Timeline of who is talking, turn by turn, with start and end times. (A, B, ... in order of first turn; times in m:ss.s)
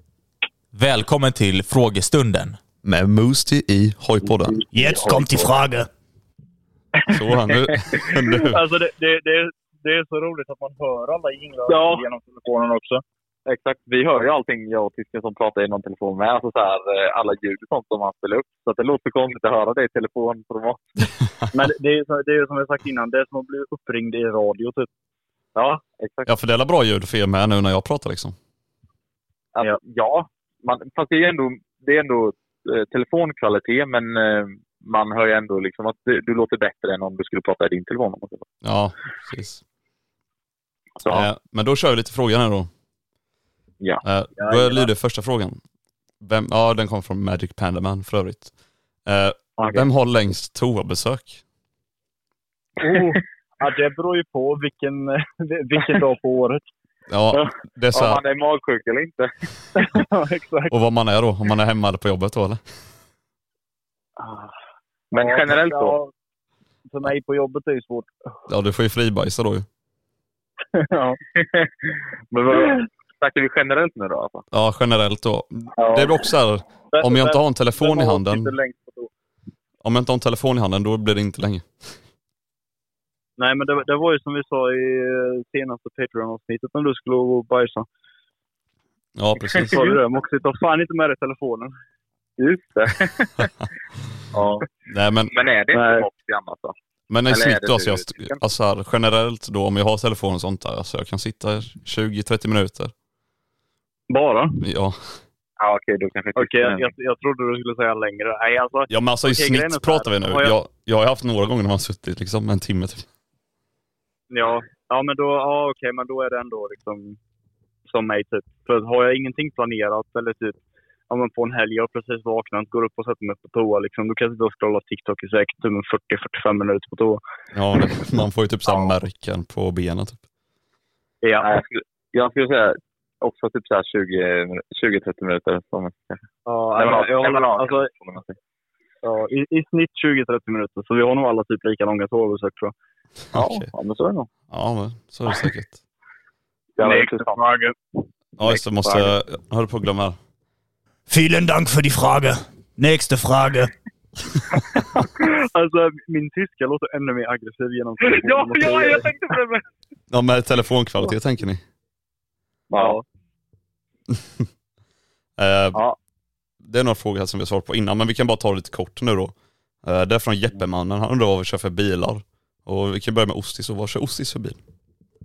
0:00.7-0:02.6 A
0:02.8-0:04.6 B
0:04.7-0:05.9 A
0:04.8-0:05.5 C
0:07.0-0:08.6 B
0:08.5-0:13.0 D
0:11.7-0:12.0 C
0:13.4-0:21.1 C
0:21.5-0:24.9 D
0:25.6-0:26.3 C
0:26.3-0:28.3 B
0:29.5-0:38.4 C
0:38.6-0:39.6 B
0:41.0-0:41.3 C
0:41.1-0:42.7 B
0:44.0-0:45.6 B
0:44.4-0:44.9 D
0:46.2-0:48.5 B
0:49.0-0:51.4 B
0:49.6-0:49.8 C
0:52.8-0:56.6 D
0:57.1-0:58.2 B
0:57.9-0:59.3 C
0:59.8-1:00.7 D
1:00.7-1:02.6 B
1:04.2-1:04.5 D
1:05.1-1:06.0 C
1:05.1-1:06.1 D
1:06.9-1:08.1 D
1:08.5-1:09.6 B
1:10.7-1:11.2 D
1:11.3-1:14.4 C
1:12.5-1:12.8 D
1:14.5-1:18.5 B
1:16.9-1:19.1 D
1:19.8-1:22.0 B
1:23.4-1:27.9 D
1:29.2-1:29.8 B
1:29.5-1:29.8 C
1:29.7-1:31.7 D
1:32.4-1:33.5 C
1:34.3-1:34.7 C
1:34.9-1:35.3 B
1:35.3-1:36.7 C
1:35.7-1:36.1 D
1:37.1-1:42.9 B
1:37.3-1:38.4 C
1:44.1-1:44.6 D
1:44.6-1:45.2 B
1:45.6-1:46.9 C
1:46.4-1:50.5 D
1:48.9-1:53.0 B
1:54.3-1:57.2 D
1:57.9-2:00.6 D
2:01.1-2:07.2 D
2:07.5-2:10.2 B
2:11.2-2:11.5 D
2:11.4-2:18.4 C
2:16.4-2:17.9 D
2:19.0-2:22.7 D
2:23.3-2:23.7 B
2:23.3-2:24.3 C
2:24.5-2:25.8 B
2:26.8-2:27.4 C
2:26.8-2:27.7 D
2:28.4-2:30.2 B
2:28.4-2:29.1 C
2:31.1-2:33.7 A
2:35.2-2:39.1 D
2:38.1-2:39.6 C
2:40.1-2:41.6 B
2:42.7-2:43.0 C
2:42.7-2:43.0 D
2:45.4-2:45.8 B
2:46.6-2:49.3 B
2:49.8-2:54.6 B